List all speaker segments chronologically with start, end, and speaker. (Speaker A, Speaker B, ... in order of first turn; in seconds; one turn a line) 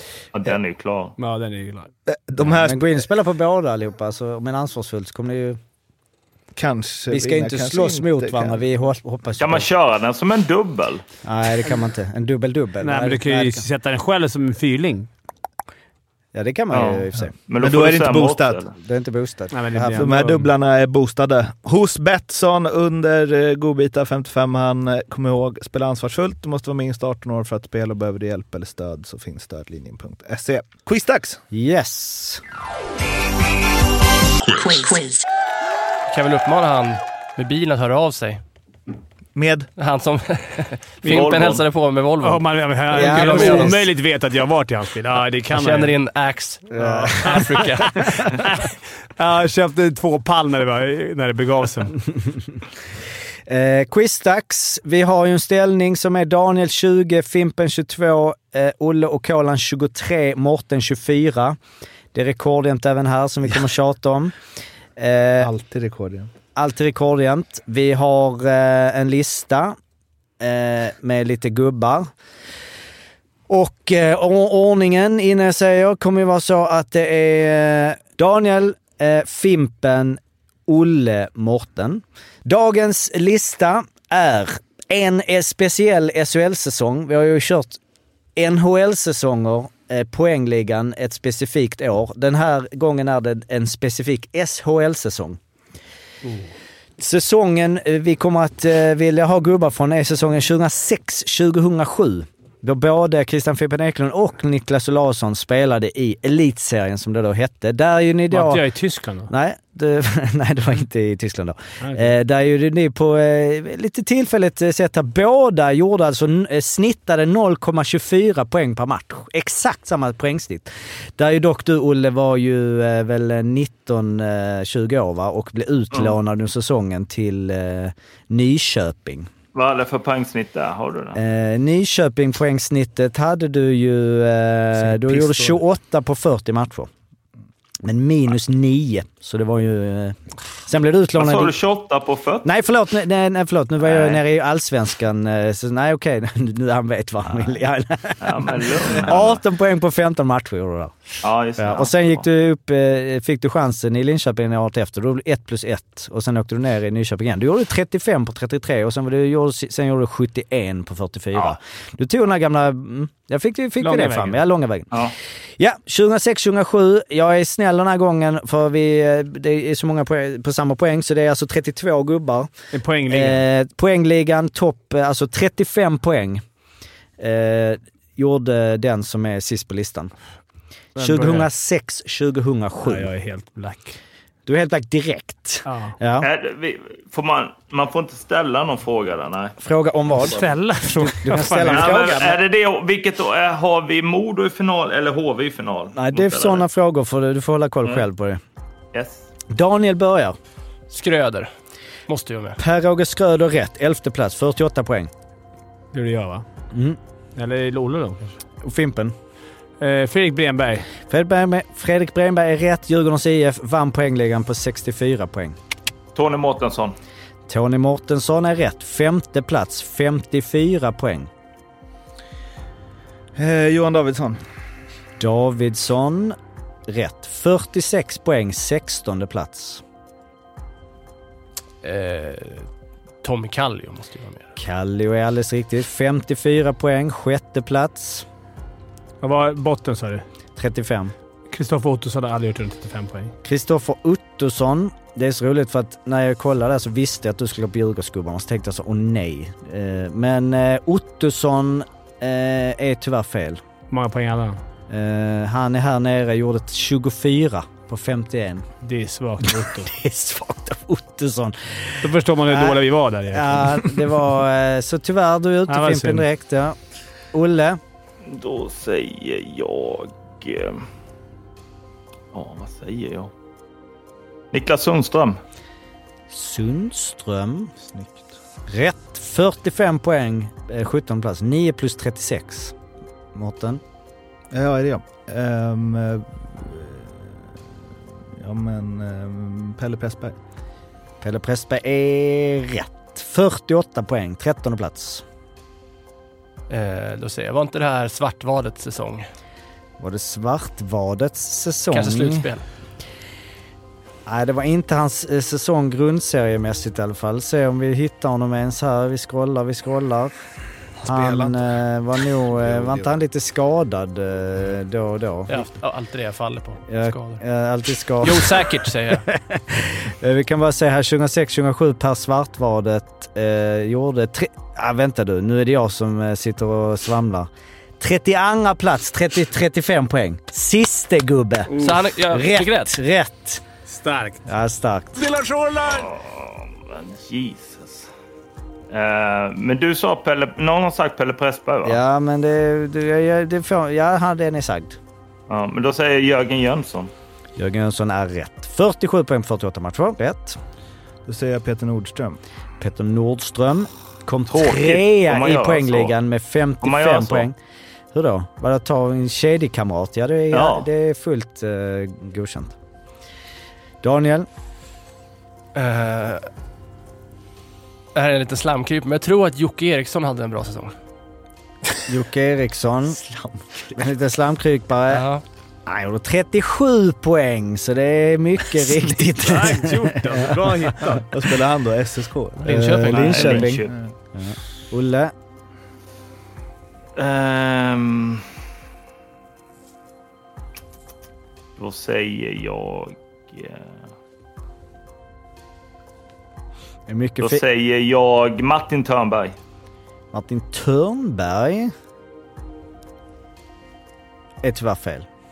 Speaker A: 0.3-1.1
Speaker B: 1.2-1.9
Speaker C: 2.1-3.0
Speaker D: 2.4-5.6
Speaker C: 6.6-8.6
Speaker D: 7.1-9.7
Speaker A: 9.4-11.0
Speaker D: 11.2-13.7
Speaker B: 12.8-15.1
Speaker D: 16.3-17.3
Speaker A: 16.7-18.7
Speaker C: 17.6-18.6
Speaker D: 18.8-20.1
Speaker B: 19.5-20.5
Speaker C: 19.9-31.4
Speaker D: 31.5-32.4
Speaker E: 36.1-38.4
Speaker C: 39.4-39.7
Speaker E: 39.8-43.8
Speaker B: 41.0-41.4
Speaker A: 41.1-41.6
Speaker B: 42.2-46.0
Speaker D: 42.9-43.8
Speaker E: 45.5-48.1
Speaker D: 46.8-47.5
Speaker B: 46.8-52.0
Speaker D: 53.5-61.6
Speaker D: 62.1-64.3
Speaker D: 65.0-65.5
Speaker C: 65.4-66.3
Speaker D: 66.6-69.8
Speaker D: 70.4-72.1
Speaker D: 73.5-87.8
Speaker D: 88.4-95.4
Speaker D: 97.0-108.7
Speaker B: 108.3-109.3
Speaker D: 109.3-129.3
Speaker B: 111.8-112.1
Speaker A: 129.5-131.2
Speaker D: 131.2-136.9
Speaker D: 137.8-141.6
Speaker A: 141.2-142.5
Speaker D: 142.4-150.9
Speaker A: 143.8-144.2
Speaker A: 148.2-149.4
Speaker A: 151.2-152.2
Speaker D: 151.6-165.0
Speaker B: 163.8-164.4
Speaker D: 165.6-172.5
Speaker B: 172.7-173.4
Speaker D: 173.1-176.4
Speaker D: 177.2-180.1
Speaker B: 181.0-181.5
Speaker D: 181.0-183.1
Speaker B: 182.8-184.0
Speaker D: 184.5-186.3
Speaker B: 185.7-185.9
Speaker A: 186.2-189.6
Speaker D: 189.6-190.4
Speaker B: 190.2-192.0
Speaker D: 191.0-192.4
Speaker A: 191.7-196.7
Speaker D: 195.9-198.4
Speaker A: 198.9-199.2
Speaker D: 199.5-200.4
Speaker E: 200.9-201.5
Speaker E: 202.1-202.6
Speaker D: 202.6-205.1
Speaker B: 205.9-206.4
Speaker D: 206.7-207.0
Speaker B: 207.4-208.4
Speaker D: 208.6-209.2
Speaker B: 209.8-210.9
Speaker D: 211.1-215.6
Speaker A: 216.2-216.9
Speaker D: 217.5-221.3
Speaker C: 223.4-224.4
Speaker D: 225.2-229.8
Speaker E: 231.8-232.7
Speaker E: 233.2-234.5
Speaker D: 234.6-238.3
Speaker B: 239.2-240.2
Speaker D: 240.6-241.1
Speaker B: 241.5-243.3
Speaker D: 243.4-253.6
Speaker B: 253.9-254.6
Speaker D: 254.9-258.7
Speaker B: 258.8-259.9
Speaker D: 259.4-266.8
Speaker B: 262.0-263.9
Speaker B: 265.7-266.2
Speaker D: 267.3-267.8
Speaker A: 268.2-270.9
Speaker A: 272.3-273.3
Speaker A: 274.5-275.4
Speaker D: 276.3-277.7
Speaker C: 277.9-278.3
Speaker D: 278.7-282.8
Speaker D: 283.4-283.8
Speaker C: 284.5-287.2
Speaker C: 288.4-290.4
Speaker D: 291.2-295.2
Speaker E: 296.7-299.3
Speaker D: 300.0-302.5
Speaker E: 301.9-302.6
Speaker D: 304.3-310.3
Speaker C: 311.0-311.7
Speaker D: 311.1-315.7
Speaker C: 312.6-313.1
Speaker E: 315.5-317.4
Speaker D: 316.9-333.6
Speaker E: 318.2-319.3
Speaker B: 331.7-332.0
Speaker E: 331.8-333.0
Speaker B: 333.9-334.4
Speaker D: 334.5-335.3
Speaker B: 335.2-336.1
Speaker A: 335.9-338.1
Speaker A: 338.9-342.0
Speaker D: 341.9-345.0
Speaker A: 345.5-347.1
Speaker D: 347.6-350.6
Speaker C: 351.3-352.4
Speaker D: 352.8-357.6
Speaker A: 354.5-356.1
Speaker A: 356.8-357.5
Speaker D: 358.1-362.8
Speaker A: 360.5-360.9
Speaker D: 364.0-364.5
Speaker E: 365.8-366.4
Speaker E: 368.1-370.9
Speaker D: 372.1-373.2
Speaker D: 373.9-375.2
Speaker E: 375.1-375.4
Speaker D: 375.9-380.9
Speaker B: 379.4-381.2
Speaker C: 381.2-384.1
Speaker E: 382.7-383.5
Speaker D: 383.0-385.3
Speaker A: 383.2-383.9
Speaker A: 387.2-388.5
Speaker A: 391.8-393.9
Speaker D: 397.1-397.6
Speaker A: 397.4-399.6
Speaker D: 400.3-401.9
Speaker D: 404.6-405.3